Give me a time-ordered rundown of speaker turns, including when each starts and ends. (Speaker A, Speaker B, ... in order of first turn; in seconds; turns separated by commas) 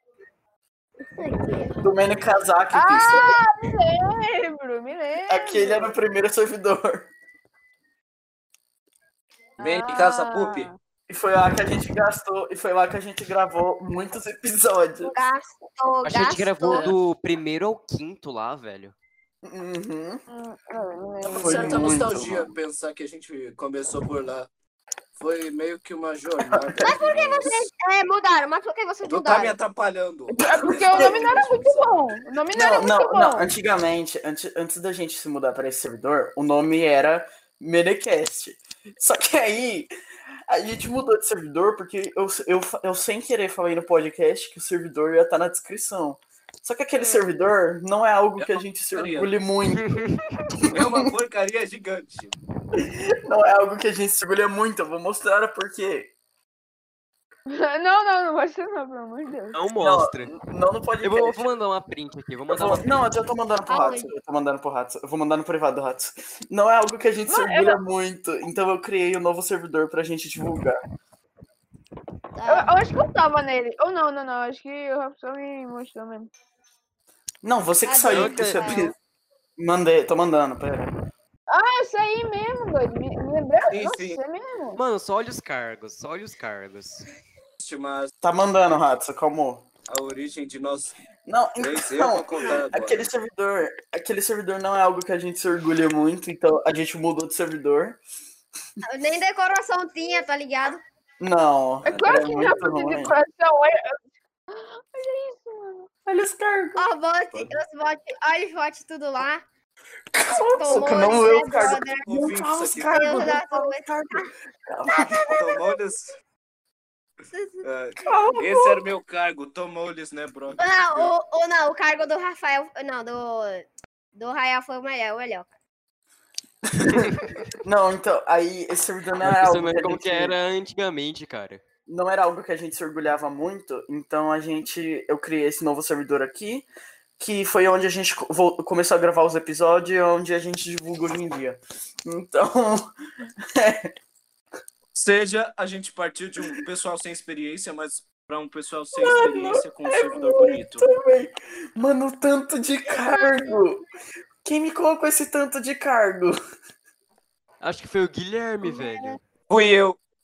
Speaker A: 1.2-1.8, Speaker B: 1.8-3.4, Speaker C: 2.7-5.9, Speaker B: 5.3-7.1, Speaker C: 9.6-10.8, Speaker D: 9.6-10.7, Speaker B: 11.1-15.1, Speaker A: 15.0-16.9, Speaker E: 16.0-18.9, Speaker B: 19.4-20.2, Speaker C: 20.3-22.0, Speaker B: 21.2-22.5, Speaker D: 21.3-24.5, Speaker D: 25.1-27.7, Speaker B: 26.5-26.9, Speaker A: 26.8-29.6, Speaker D: 29.0-32.2, Speaker C: 30.4-33.5, Speaker B: 30.4-31.3, Speaker B: 32.5-39.9, Speaker B: 40.5-50.0, Speaker D: 48.4-49.3, Speaker E: 49.7-50.6, Speaker B: 50.6-51.1, Speaker D: 50.7-52.4, Speaker B: 52.7-56.1, Speaker C: 57.5-59.6, Speaker E: 59.5-60.3, Speaker B: 59.8-61.6, Speaker E: 61.0-63.2, Speaker B: 62.5-70.8, Speaker A: 63.7-64.1, Speaker C: 67.3-67.8, Speaker A: 72.3-72.7, Speaker C: 72.5-76.3, Speaker B: 77.4-78.9, Speaker A: 77.8-78.9, Speaker E: 78.0-78.9, Speaker B: 79.6-80.9, Speaker C: 81.5-84.8, Speaker D: 83.7-84.2, Speaker E: 84.7-87.1, Speaker D: 87.6-88.1, Speaker B: 88.2-89.6, Speaker D: 89.9-91.0, Speaker B: 91.3-98.0, Speaker D: 91.6-93.1, Speaker A: 98.8-100.8, Speaker B: 101.2-103.1, Speaker C: 101.8-104.0, Speaker D: 101.9-102.1, Speaker C: 104.5-105.9, Speaker B: 106.0-106.9, Speaker A: 106.8-109.4, Speaker B: 110.1-115.2, Speaker A: 110.3-112.1, Speaker D: 112.0-113.2, Speaker A: 112.8-114.3, Speaker A: 114.9-115.8, Speaker D: 115.2-116.1, Speaker A: 117.3-117.7, Speaker D: 117.6-121.1, Speaker B: 118.0-118.8, Speaker A: 120.6-125.5, Speaker B: 126.7-130.4, Speaker E: 126.8-127.5, Speaker E: 129.2-131.6, Speaker B: 131.9-136.7, Speaker B: 137.2-142.9, Speaker B: 143.5-143.9, Speaker D: 144.9-150.9, Speaker B: 148.9-153.8, Speaker A: 152.8-153.7, Speaker B: 154.4-156.4, Speaker E: 157.6-159.2, Speaker A: 158.6-159.1, Speaker D: 159.5-160.0